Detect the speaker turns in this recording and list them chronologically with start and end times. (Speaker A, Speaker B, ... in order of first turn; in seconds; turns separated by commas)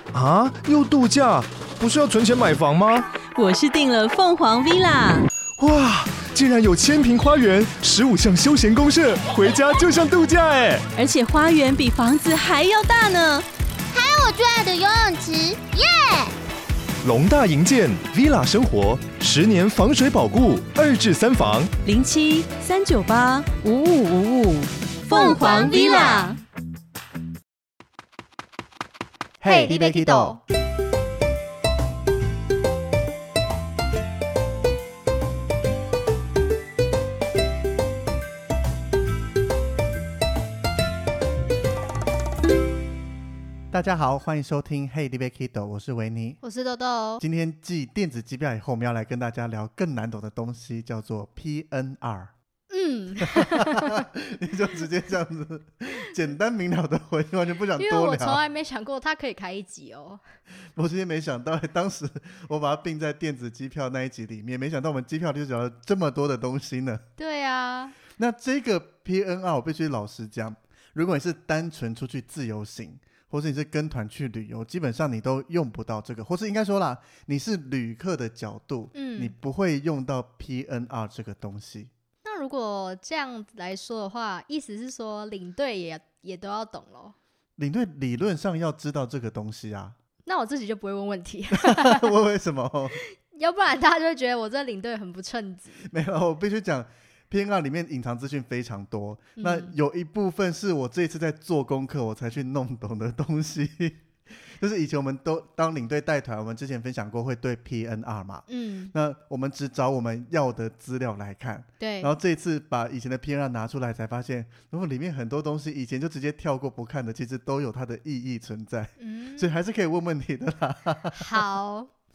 Speaker A: 0.1-3.1, Speaker B: 3.3-5.3, Speaker A: 5.6-10.8, Speaker B: 10.9-13.4, Speaker C: 13.9-16.3, Speaker A: 17.0-21.7, Speaker B: 21.8-26.4, Speaker C: 25.1-26.4, Speaker D: 29.4-30.4, Speaker E: 29.4-30.4, Speaker D: 43.7-46.4, Speaker E: 46.4-47.2, Speaker D: 47.2-52.3, Speaker E: 52.7-54.0, Speaker D: 53.2-58.4, Speaker E: 57.8-60.2, Speaker D: 60.8-67.0, Speaker E: 67.2-68.0, Speaker D: 68.2-81.9, Speaker E: 78.9-79.3, Speaker E: 82.2-87.2, Speaker D: 87.6-89.9, Speaker E: 90.2-92.1, Speaker D: 91.5-93.0, Speaker E: 93.0-95.8, Speaker D: 95.8-121.4, Speaker E: 99.4-99.7, Speaker E: 108.5-108.9, Speaker E: 111.8-112.1, Speaker E: 119.0-119.5, Speaker E: 121.1-121.9